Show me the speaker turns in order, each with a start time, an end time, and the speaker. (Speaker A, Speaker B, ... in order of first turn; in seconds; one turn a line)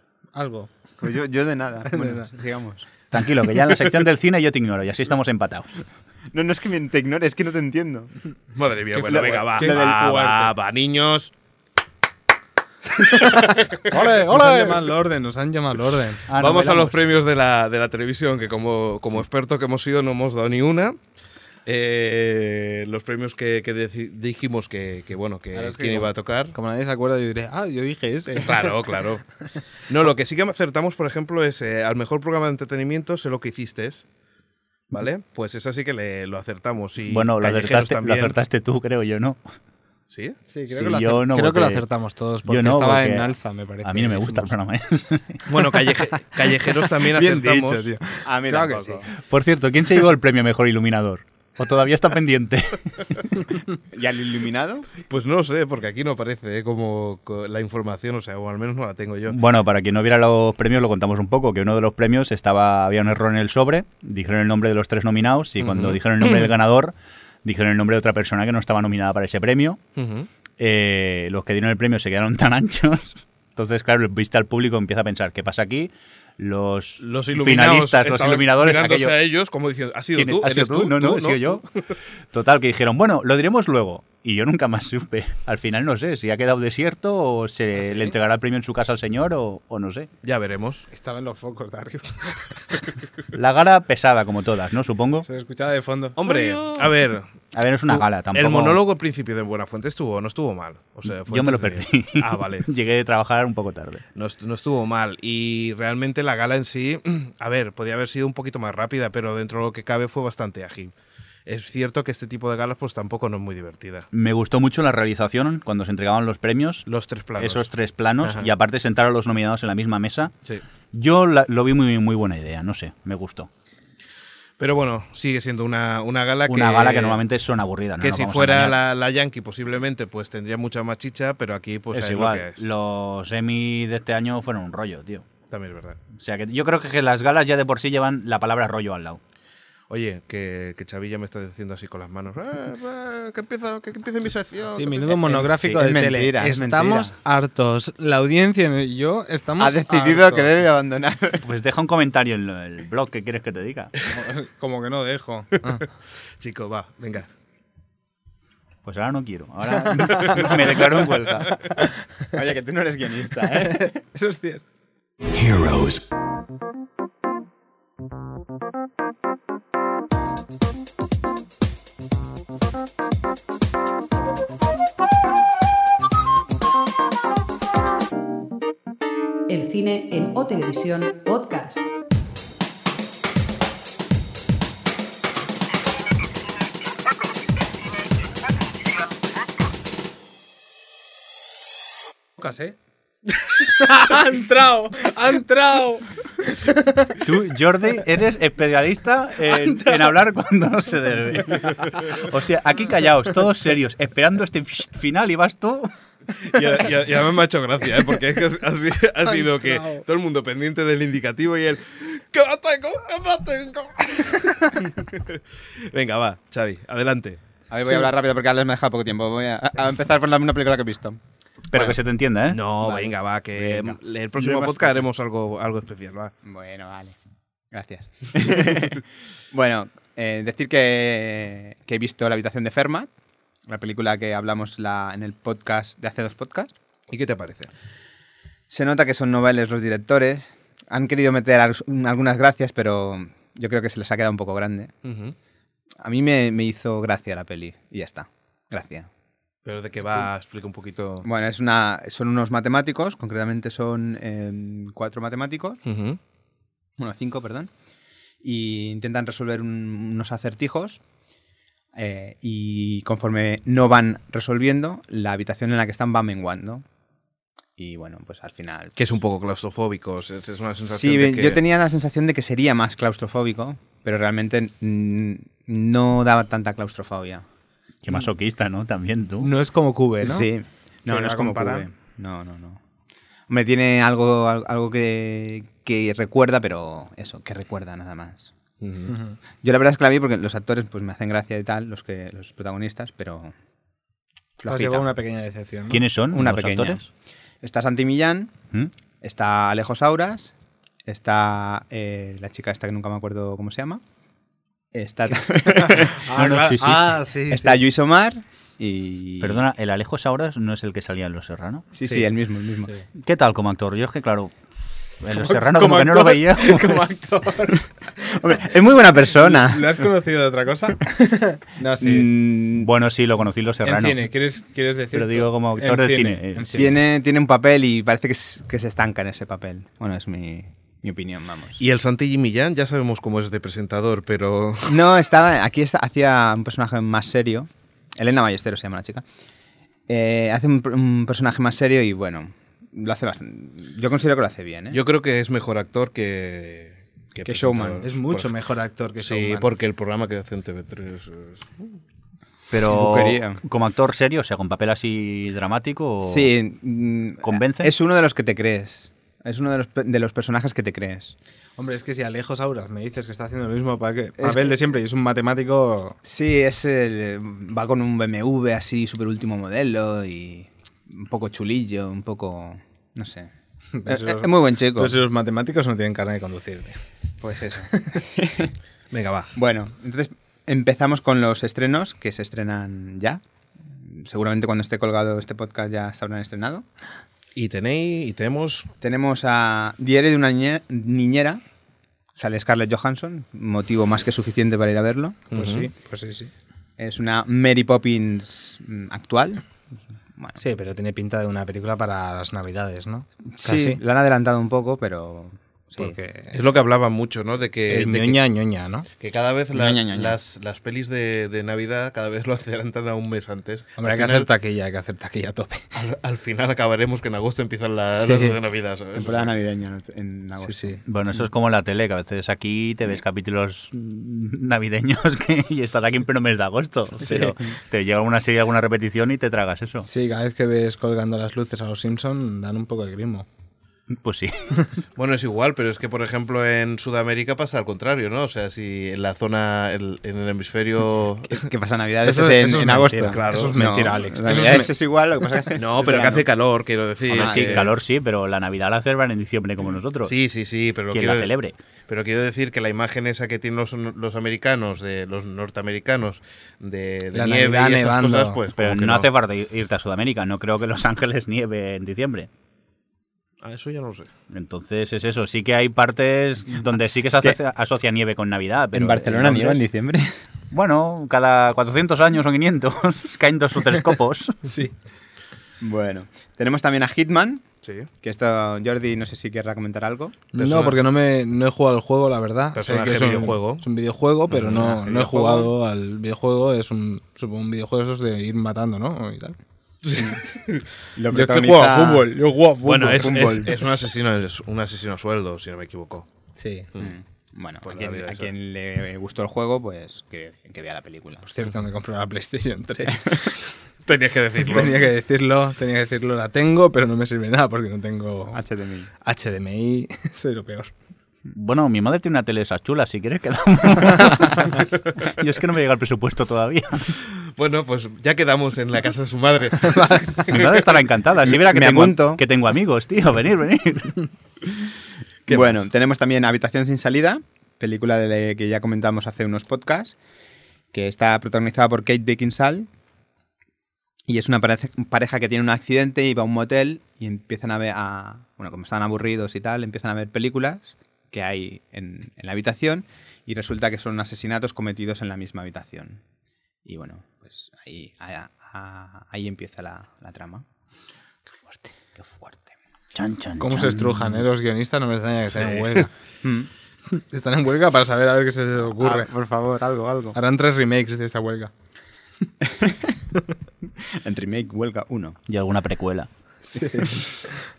Speaker A: 0.3-0.7
Speaker B: 1.0-2.9
Speaker A: 1.9-2.3
Speaker C: 3.1-5.7
Speaker B: 6.3-8.1
Speaker D: 8.5-11.3
Speaker A: 8.9-10.5
Speaker B: 9.0-10.1
Speaker D: 13.1-13.8
Speaker C: 13.9-14.8
Speaker A: 13.9-16.2
Speaker C: 16.3-16.9
Speaker D: 16.3-21.0
Speaker D: 21.6-26.5
Speaker A: 25.5-28.9
Speaker D: 28.4-29.2
Speaker D: 29.9-34.0
Speaker D: 34.9-38.4
Speaker C: 37.1-39.4
Speaker D: 40.1-40.4
Speaker A: 40.5-44.5
Speaker C: 40.7-41.8
Speaker C: 42.5-43.3
Speaker C: 43.8-45.4
Speaker D: 45.5-47.9
Speaker A: 46.1-49.1
Speaker B: 48.2-49.1
Speaker C: 49.2-53.4
Speaker B: 53.9-54.9
Speaker D: 55.0-59.4
Speaker C: 59.3-69.8
Speaker D: 65.6-66.5
Speaker D: 70.0-70.3
Speaker C: 70.6-79.2
Speaker D: 77.0-81.6
Speaker C: 80.1-81.6
Speaker C: 82.3-90.1
Speaker A: 87.8-88.1
Speaker D: 90.2-90.8
Speaker A: 90.9-92.8
Speaker C: 93.3-95.3
Speaker A: 95.2-96.8
Speaker D: 96.2-97.3
Speaker C: 97.5-98.8
Speaker D: 97.9-102.7
Speaker C: 101.3-104.0
Speaker D: 104.1-110.9
Speaker D: 111.5-114.0
Speaker C: 114.1-116.8
Speaker D: 116.9-117.7
Speaker C: 117.4-120.3
Speaker D: 118.2-118.5
Speaker C: 120.9-123.5
Speaker D: 124.6-127.2
Speaker C: 126.5-128.8
Speaker D: 128.0-132.6
Speaker C: 131.9-135.3
Speaker D: 135.5-136.0
Speaker C: 136.1-139.2
Speaker D: 139.9-145.2
Speaker A: 144.7-150.6
Speaker B: 145.1-147.1
Speaker B: 149.6-151.4
Speaker C: 151.4-153.9
Speaker A: 154.1-155.9
Speaker D: 156.4-157.3
Speaker C: 158.8-161.6
Speaker B: 162.3-163.9
Speaker A: 163.6-164.6
Speaker C: 165.4-166.0
Speaker E: 179.5-181.8
Speaker A: 192.4-192.8
Speaker A: 193.6-197.2
Speaker C: 197.2-205.9
Speaker A: 199.5-200.0
Speaker D: 206.4-217.4
Speaker A: 209.3-210.0
Speaker B: 217.7-221.2
Speaker C: 221.7-222.6
Speaker D: 221.7-222.0
Speaker D: 222.5-226.3
Speaker B: 222.8-224.9
Speaker B: 226.4-227.2
Speaker B: 227.7-233.1
Speaker B: 233.7-236.7
Speaker D: 237.1-237.7
Speaker B: 238.7-244.9
Speaker D: 245.0-245.3
Speaker B: 246.0-249.1
Speaker D: 249.6-251.3
Speaker B: 251.2-255.8
Speaker D: 255.8-256.2
Speaker B: 257.0-257.7
Speaker B: 258.4-261.0
Speaker B: 261.9-266.8
Speaker B: 267.8-268.9
Speaker D: 268.9-271.6
Speaker B: 270.8-277.4
Speaker C: 278.0-279.5
Speaker A: 279.4-280.5
Speaker B: 280.2-282.8
Speaker A: 281.1-281.9
Speaker B: 283.5-288.5
Speaker D: 288.8-289.1
Speaker A: 289.1-289.4
Speaker B: 289.6-293.5
Speaker B: 294.6-295.1
Speaker A: 294.6-296.0
Speaker C: 295.9-297.0
Speaker B: 296.3-297.0
Speaker B: 297.6-298.5
Speaker B: 299.2-300.5
Speaker B: 301.1-304.0
Speaker B: 304.9-306.2
Speaker A: 305.7-307.8
Speaker C: 306.3-307.1
Speaker B: 307.5-309.6
Speaker C: 309.4-311.9
Speaker B: 311.9-312.9
Speaker C: 313.2-314.5
Speaker C: 315.2-317.0
Speaker A: 315.4-318.3
Speaker B: 318.2-319.9
Speaker A: 319.3-322.3
Speaker B: 322.0-322.9
Speaker C: 322.8-324.2
Speaker A: 323.8-326.9
Speaker C: 325.1-326.9
Speaker B: 326.7-331.8
Speaker D: 331.8-335.0
Speaker B: 334.9-339.2
Speaker B: 340.1-345.0
Speaker D: 344.9-348.5
Speaker B: 347.4-348.1
Speaker A: 348.0-349.7
Speaker D: 349.2-351.9
Speaker C: 352.7-356.5
Speaker B: 352.9-353.6
Speaker B: 356.2-361.3
Speaker C: 357.4-357.9
Speaker A: 361.8-366.2
Speaker B: 364.4-364.7
Speaker B: 366.2-373.5
Speaker A: 373.9-377.0
Speaker B: 374.1-375.2
Speaker B: 377.4-378.7
Speaker D: 379.1-379.5
Speaker B: 379.5-383.4
Speaker B: 383.9-386.8
Speaker D: 387.5-388.9
Speaker B: 389.0-391.6
Speaker B: 392.3-395.5
Speaker D: 395.5-395.9
Speaker A: 395.5-396.5
Speaker B: 397.0-399.7
Speaker A: 400.6-404.0
Speaker B: 403.5-406.1
Speaker A: 405.9-406.6
Speaker D: 406.5-408.4
Speaker A: 407.9-409.1
Speaker D: 409.2-414.5
Speaker B: 409.7-410.4
Speaker A: 414.0-415.9
Speaker D: 415.9-419.5
Speaker A: 418.1-418.6
Speaker B: 419.1-421.0
Speaker A: 420.6-421.0
Speaker C: 421.1-430.1
Speaker A: 427.2-427.5
Speaker A: 430.1-433.4
Speaker C: 434.1-434.8
Speaker D: 435.1-441.7
Speaker B: 441.5-446.5
Speaker A: 442.2-444.9
Speaker D: 443.2-443.9
Speaker D: 445.8-447.9
Speaker B: 447.3-447.9
Speaker C: 447.3-450.3
Speaker D: 450.2-451.5
Speaker C: 451.1-451.7
Speaker D: 452.1-459.3
Speaker A: 457.3-458.6
Speaker C: 458.8-462.5
Speaker D: 463.6-464.3
Speaker C: 464.5-469.8
Speaker B: 468.9-470.3
Speaker C: 470.7-474.6
Speaker A: 474.6-474.9
Speaker B: 475.8-477.6
Speaker D: 477.8-478.1
Speaker B: 478.2-480.4
Speaker A: 480.5-489.6
Speaker D: 480.6-481.0
Speaker D: 482.7-483.8
Speaker B: 484.5-485.7
Speaker D: 490.0-490.9
Speaker B: 491.1-492.3
Speaker A: 491.3-493.7
Speaker D: 492.8-496.3
Speaker B: 493.2-493.7
Speaker A: 496.6-496.9
Speaker B: 497.0-501.5
Speaker D: 497.8-498.5
Speaker A: 501.4-503.6
Speaker D: 504.0-505.1
Speaker A: 504.6-508.6
Speaker B: 508.5-509.1
Speaker A: 509.2-510.9
Speaker C: 511.5-517.2
Speaker D: 517.3-520.9
Speaker A: 520.0-520.2
Speaker C: 520.5-524.3
Speaker B: 521.5-522.4
Speaker D: 525.5-525.8
Speaker B: 525.5-530.1
Speaker B: 530.9-532.9
Speaker B: 534.3-546.2
Speaker B: 546.8-550.6
Speaker B: 552.0-552.7
Speaker C: 553.1-554.5
Speaker A: 553.6-556.1
Speaker D: 555.5-556.0
Speaker B: 556.4-556.7
Speaker A: 557.1-559.3
Speaker B: 559.0-560.4
Speaker A: 560.3-561.7
Speaker B: 562.6-563.1
Speaker B: 564.0-565.4
Speaker C: 565.5-566.3
Speaker A: 566.6-567.5